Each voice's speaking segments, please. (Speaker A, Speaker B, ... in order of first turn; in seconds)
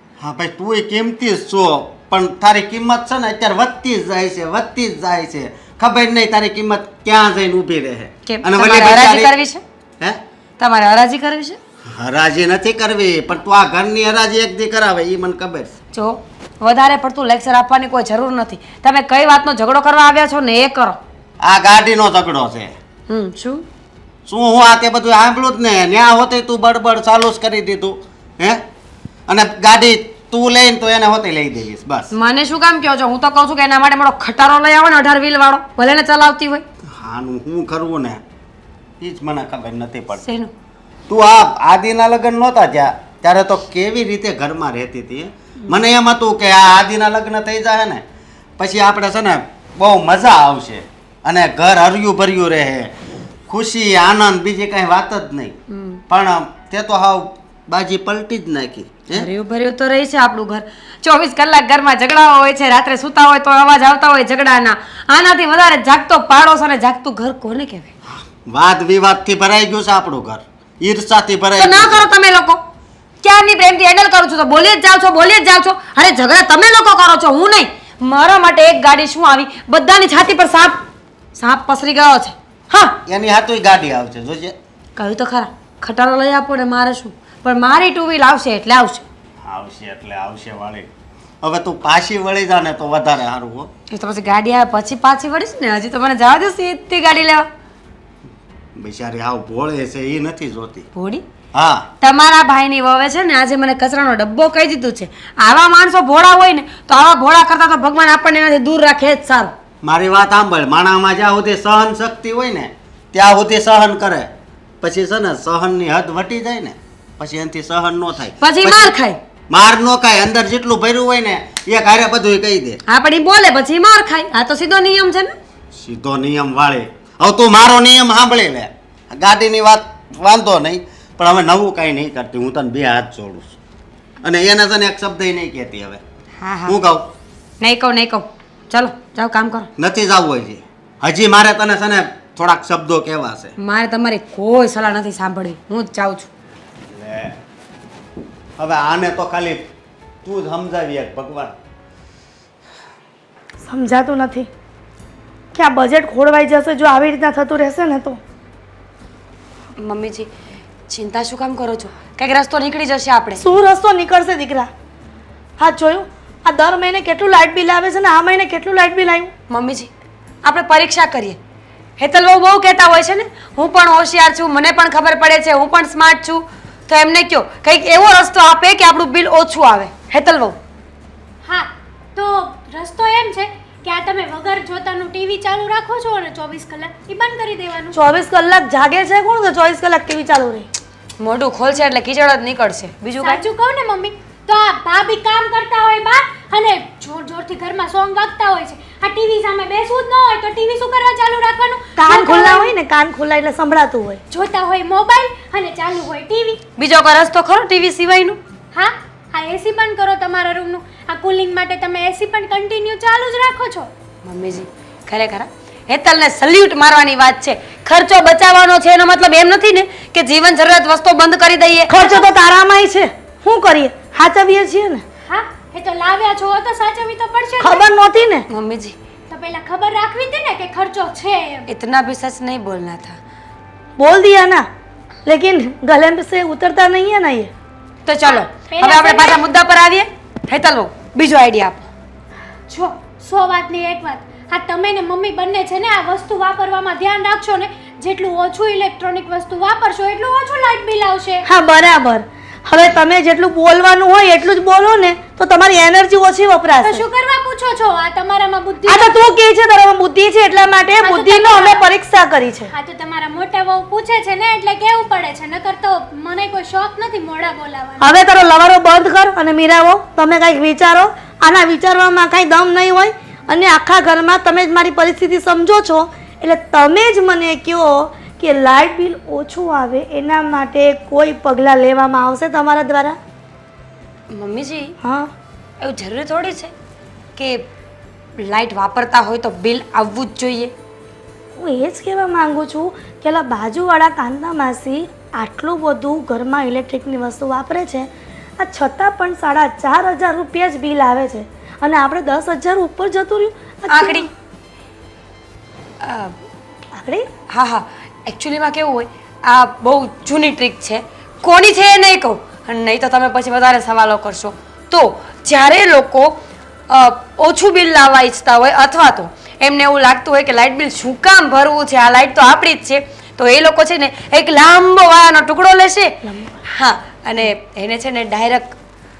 Speaker A: 0.2-9.3, 11.8-15.7, 21.4-22.7, 24.2-28.6, 29.3-32.1, 36.9-38.2, 39.0-40.2, 41.1-48.0, 48.6-53.0, 53.5-55.6, 56.1-59.3, 68.4-72.1, 83.0-84.5, 89.4-90.9, 91.4-93.7, 98.8-100.8, 101.5-101.9, 109.8-118.9, 119.5-122.8, 125.7-133.6, 134.2-136.0, 136.7-137.1, 139.8-143.5, 146.9-147.4, 148.6-149.7, 150.2-151.5
Speaker B: 8.2-9.6, 10.6-11.6, 15.9-21.0, 23.1-23.6, 32.1-36.6, 40.2-40.5, 55.7-56.0, 59.1-67.9, 71.6-72.6, 73.2-80.8, 81.3-82.9, 85.0-89.0, 93.9-97.5, 100.9-101.2, 102.0-109.5, 118.4-119.2, 122.9-125.3, 136.4-136.8, 137.6-139.7, 143.6-146.3, 159.8-160.3, 160.9-163.4, 169.5-169.9, 170.4-171.4, 172.0-180.6, 191.2-193.4, 206.8-208.4, 214.2-221.9, 228.5-228.9, 231.7-233.2, 238.1-241.9, 284.3-284.9, 285.8-286.7, 287.4-287.6, 288.4-290.7, 303.9-304.2, 306.0-306.4, 307.5-316.4, 316.9-326.2, 326.7-328.8
Speaker C: 153.7-154.5, 155.5-158.2, 163.4-164.7, 165.6-169.3, 187.9-190.7, 202.0-204.2, 221.9-225.0, 227.6-228.4, 234.0-234.7, 235.2-237.5, 251.4-257.0, 258.9-262.7, 268.0-283.2, 285.0-285.3, 291.6-304.3, 306.9-307.3, 326.2-326.6
Speaker D: 181.4-188.0, 193.2-202.7, 204.3-206.6, 208.7-213.9, 225.3-227.9, 229.3-231.7, 238.2-239.4, 242.7-251.5, 256.8-259.3, 261.0-261.9, 262.7-268.1